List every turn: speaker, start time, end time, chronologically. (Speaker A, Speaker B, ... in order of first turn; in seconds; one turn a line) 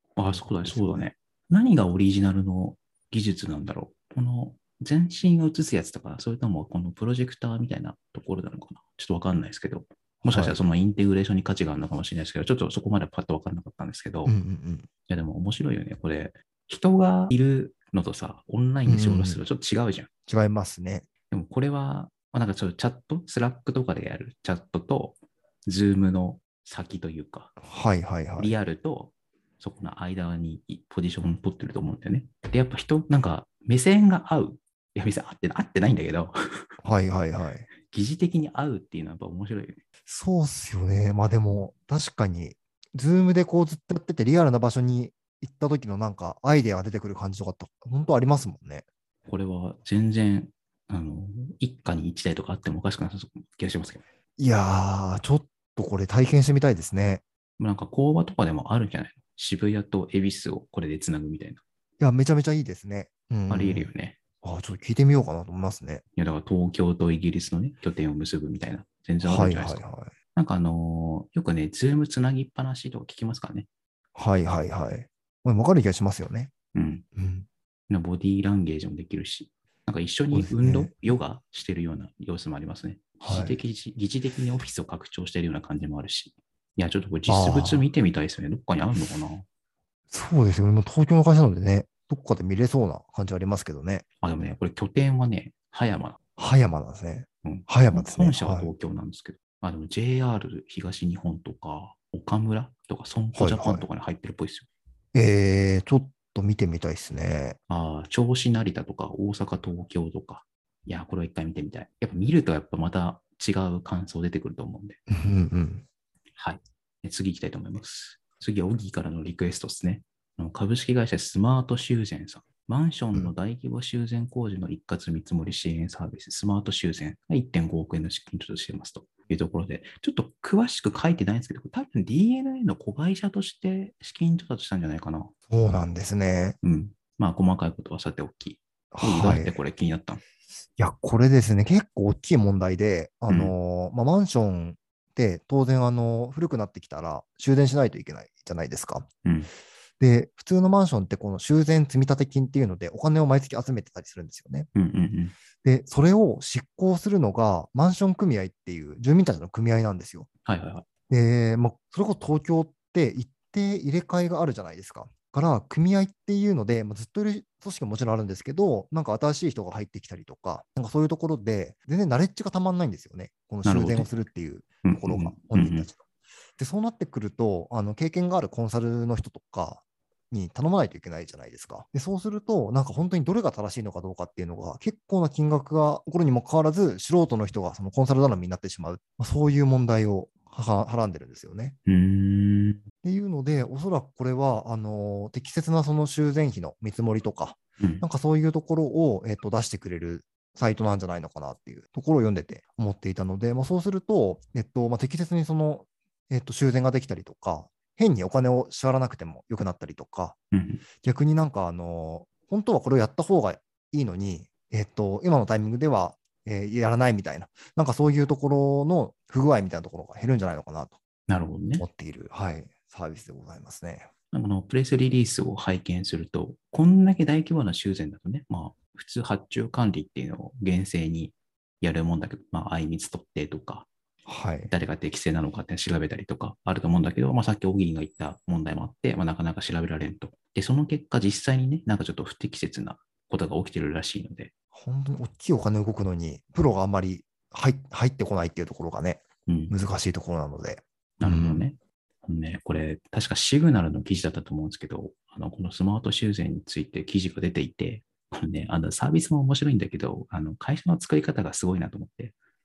Speaker A: 0.2-14.3
Speaker B: 0.3-1.1
Speaker B: 10.2-10.6
Speaker B: 14.2-14.9
Speaker A: 15.1-20.1
Speaker B: 18.9-19.4
Speaker B: 20.3-21.1
Speaker A: 21.3-27.5
Speaker B: 27.6-28.5
Speaker A: 28.4-36.4
Speaker B: 36.8-37.7
Speaker A: 37.9-39.8
Speaker B: 40.1-48.9
Speaker A: 49.3-54.0
Speaker B: 54.4-57.2
Speaker A: 57.6-61.6
Speaker B: 62.0-66.0
Speaker A: 63.5-64.2
Speaker A: 66.2-69.8
Speaker B: 69.2-70.1
Speaker A: 70.3-73.7
Speaker B: 74.2-76.5
Speaker A: 76.7-77.0
Speaker B: 77.2-77.5
Speaker A: 77.9-89.5
Speaker B: 80.3-80.9
Speaker B: 83.2-83.6
Speaker B: 87.3-87.9
Speaker B: 90.1-94.1
Speaker A: 94.2-96.2
Speaker B: 96.4-98.7
Speaker A: 97.5-104.7
Speaker B: 103.4-103.8
Speaker B: 105.1-107.6
Speaker A: 107.7-115.0
Speaker B: 115.1-115.8
Speaker A: 116.4-135.3
Speaker B: 135.5-136.6
Speaker A: 136.6-140.2
Speaker B: 138.9-139.6
Speaker B: 140.8-149.1
Speaker A: 143.3-143.5
Speaker A: 149.2-149.5
Speaker B: 150.0-154.7
Speaker A: 154.8-155.3
Speaker B: 155.6-160.3
Speaker A: 160.4-160.9
Speaker B: 161.1-176.0
Speaker A: 173.6-174.1
Speaker A: 174.8-175.9
Speaker B: 176.6-191.8
Speaker A: 191.9-192.8
Speaker B: 193.0-210.4
Speaker A: 197.8-198.0
Speaker A: 210.5-210.8
Speaker B: 211.0-220.9
Speaker A: 221.3-221.8
Speaker B: 221.8-224.1
Speaker A: 224.3-233.9
Speaker B: 234.3-234.7
Speaker A: 234.7-244.5
Speaker B: 244.7-251.7
Speaker A: 249.5-249.7
Speaker A: 251.2-262.4